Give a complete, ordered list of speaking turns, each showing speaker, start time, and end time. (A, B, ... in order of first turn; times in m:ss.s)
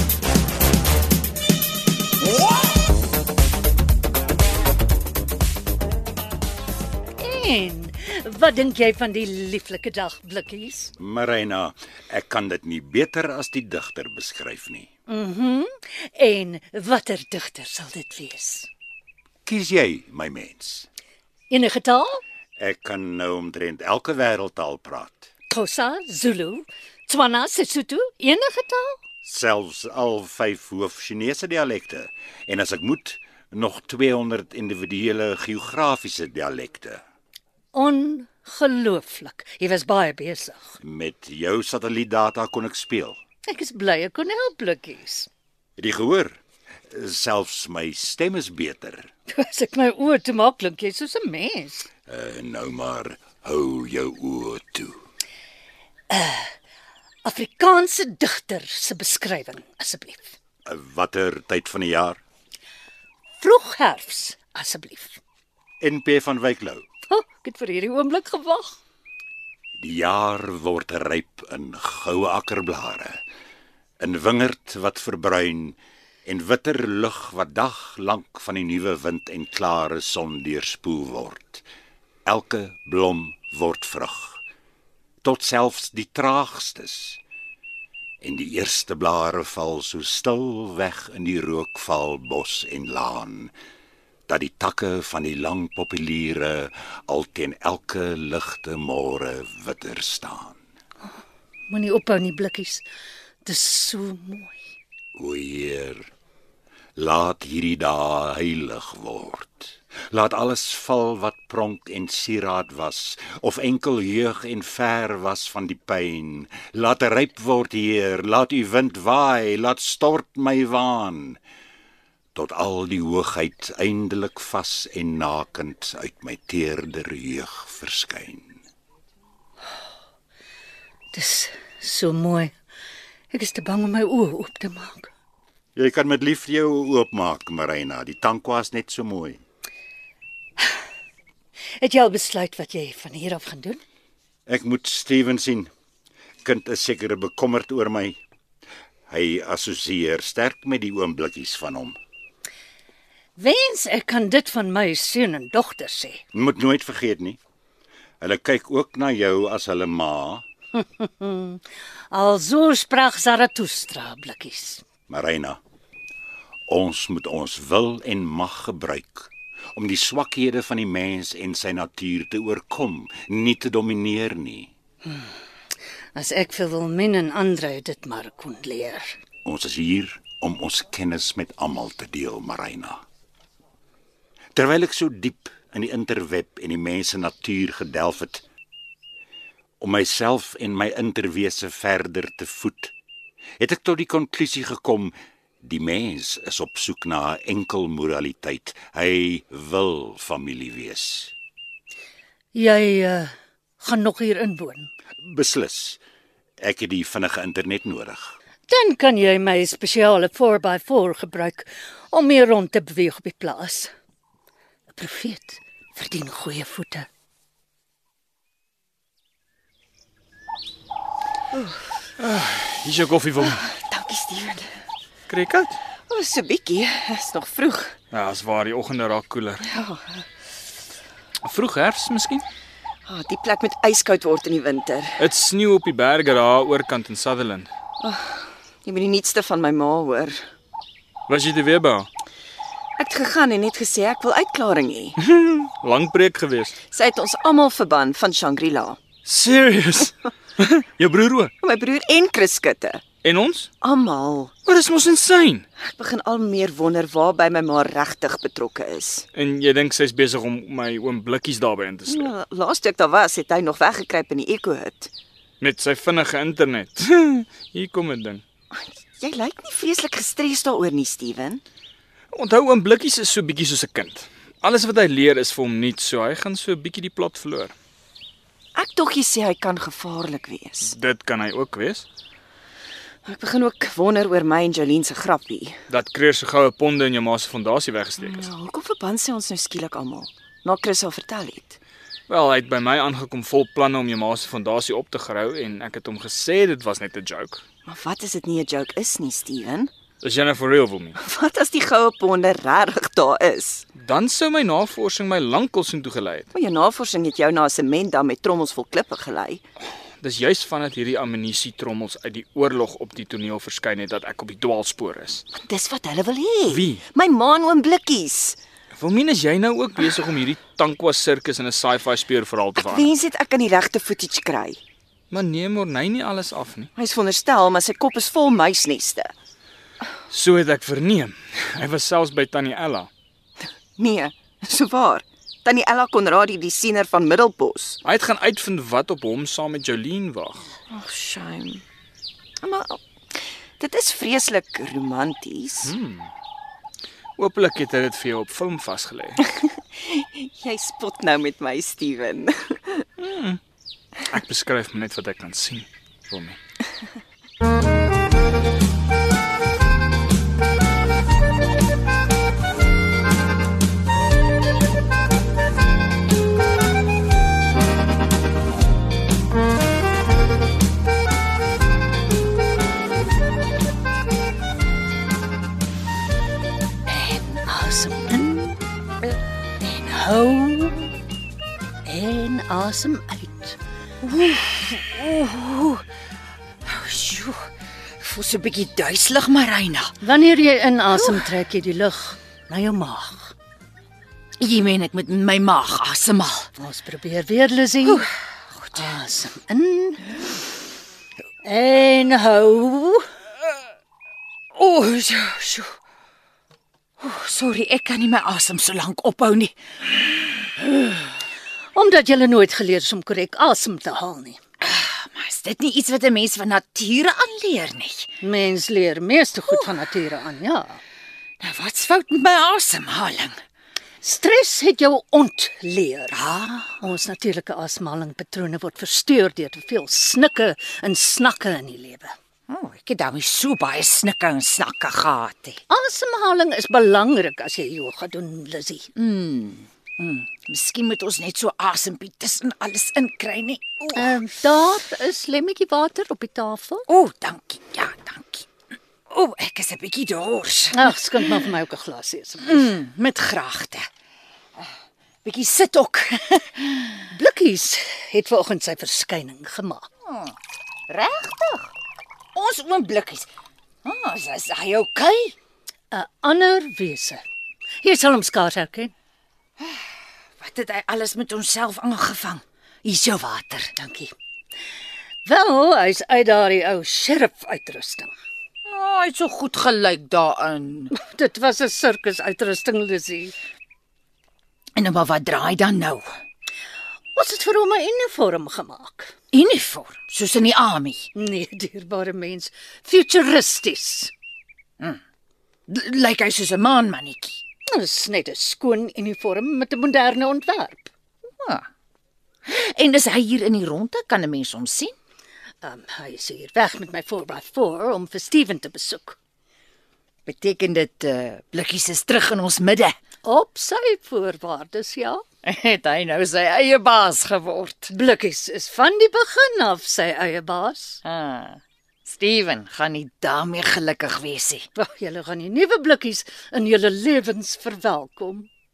0:07.2-0:10.9 A
0:11.0-0:14.9 B
0:15.1-0:18.7 A
0:19.5-0:20.9 B
0:21.5-0:22.2 A
0:22.6-0:25.3 B
0:25.5-0:29.0 A
0:29.2-0:37.0 B
0:37.7-0:40.8 A
0:40.8-0:43.2 B
0:43.5-0:45.3 A
0:45.8-0:46.4 B
0:46.9-0:49.1 B
0:49.3-0:51.9 A
0:52.1-0:55.0 B
0:56.1-0:56.5 A
0:57.2-1:00.3 A
1:00.7-1:02.2 B
1:03.4-1:05.2 A
1:05.8-1:06.8 B
1:07.1-1:08.8 A
1:09.8-1:13.2 B
1:14.0-1:21.6 B
1:22.3-1:24.4 B
1:25.2-1:27.2 B
1:28.2-1:33.5 B
1:34.3-1:40.6 B
1:41.7-1:42.8 A
1:43.4-1:44.6 A
1:45.2-1:46.1 B
1:47.0-2:01.4 B
2:02.4-2:08.6 B
2:11.1-2:12.5 A
2:13.3-2:15.1 A
2:15.8-2:19.4 B
2:21.8-2:23.8 A
2:24.5-2:25.7 B
2:26.4-2:28.2 B
2:29.1-2:32.0 B
2:33.4-2:36.2 A
2:36.3-2:37.4 B
2:38.2-2:40.4 B
2:40.8-2:44.8 A
2:45.1-2:45.6 B
2:46.7-2:54.7 B
2:56.2-2:59.2 A
2:59.4-3:03.0 B
3:04.6-3:08.4 B
3:09.8-3:12.9 B
3:13.6-3:21.3 B
3:22.5-3:24.9 A
3:25.2-3:26.0 B
3:26.6-3:28.4 B
3:28.7-3:33.9 A
3:34.9-3:37.1 A
3:41.5-3:41.8 C
3:42.2-3:43.6 D
3:43.8-3:44.7 C
3:45.3-3:45.8 D
3:46.1-3:47.9 C
3:48.1-3:49.6 D
3:49.8-3:50.2 C
3:51.4-3:52.4 D
3:53.1-3:55.1 C
3:55.2-3:57.7 D
3:58.0-4:00.4 C
4:01.3-4:02.1 D
4:03.0-4:05.2 C
4:05.2-4:06.8 D
4:06.9-4:09.0 C
4:09.2-4:11.5 D
4:11.6-4:13.0 C
4:13.1-4:13.7 D
4:13.8-4:14.5 C
4:14.6-4:15.6 D
4:15.8-4:19.2 C
4:19.4-4:22.3 D
4:22.1-4:25.1 C
4:25.6-4:28.4 D
4:29.0-4:31.6 C
4:32.3-4:37.7 D
4:38.8-4:40.9 C
4:40.8-4:42.1 D
4:43.2-4:45.8 C
4:45.9-4:48.5 D
4:48.2-4:51.8 C
4:52.3-4:57.6 D
4:57.9-4:59.9 C
5:00.2-5:01.2 D
5:01.2-5:03.8 C
5:04.0-5:06.5 D
5:06.6-5:09.6 C
5:10.2-5:15.4 D
5:15.6-5:18.6 C
5:16.7-5:17.0 D
5:18.9-5:23.1 D
5:22.8-5:24.8 C
5:25.3-5:26.9 D
5:27.0-5:29.3 C
5:30.3-5:33.1 D
5:34.0-5:38.0 C
5:38.0-5:40.7 D
5:40.9-5:41.8 C
5:42.6-5:43.0 C
5:43.8-5:45.9 C
5:45.8-5:46.3 D
5:47.4-5:49.5 D
5:50.0-5:53.0 C
5:53.2-5:53.6 D
5:54.2-5:56.6 D
6:17.1-6:18.8 A
6:19.8-6:21.1 A
6:22.0-6:23.8 A
6:24.2-6:26.0 E
6:26.9-6:27.6 E
6:28.2-6:30.2 E
6:30.2-6:33.5 A
6:34.6-6:36.7 E
6:36.8-6:38.2 A
6:38.0-6:39.1 E
6:38.9-6:40.4 A
6:41.6-6:43.2 A
6:44.8-6:45.9 E
6:47.2-6:49.7 E
6:51.9-6:54.6 A
6:54.8-6:58.3 E
6:58.4-7:01.0 A
7:01.6-7:03.6 E
7:04.2-7:06.4 A
7:06.3-7:07.0 E
7:07.0-7:12.3 A
7:12.7-7:15.8 E
7:15.9-7:19.1 A
7:19.2-7:24.4 E
7:24.1-7:27.1 A
7:27.1-7:28.7 E
7:29.3-7:31.1 E
7:30.9-7:32.9 A
7:32.6-7:34.1 E
7:35.4-7:37.1 E
7:37.3-7:40.1 A
7:40.3-7:40.5 E
7:41.1-7:41.9 E
7:42.6-7:43.5 E
7:44.0-7:45.6 E
7:46.1-7:47.4 A
7:48.0-7:49.1 A
7:50.6-7:53.9 E
7:54.0-7:54.3 A
7:55.4-7:58.3 A
7:58.9-8:01.1 E
8:01.1-8:03.5 A
8:05.0-8:06.3 E
8:07.4-8:09.3 A
8:09.5-8:11.3 E
8:11.4-8:14.3 A
8:15.9-8:17.6 E
8:17.9-8:21.1 A
8:21.6-8:21.8 E
8:22.7-8:25.1 E
8:25.8-8:29.4 A
8:30.5-8:33.2 E
8:33.4-8:35.4 A
8:35.6-8:38.1 E
8:38.1-8:41.2 A
8:41.2-8:44.8 E
8:45.0-8:48.7 A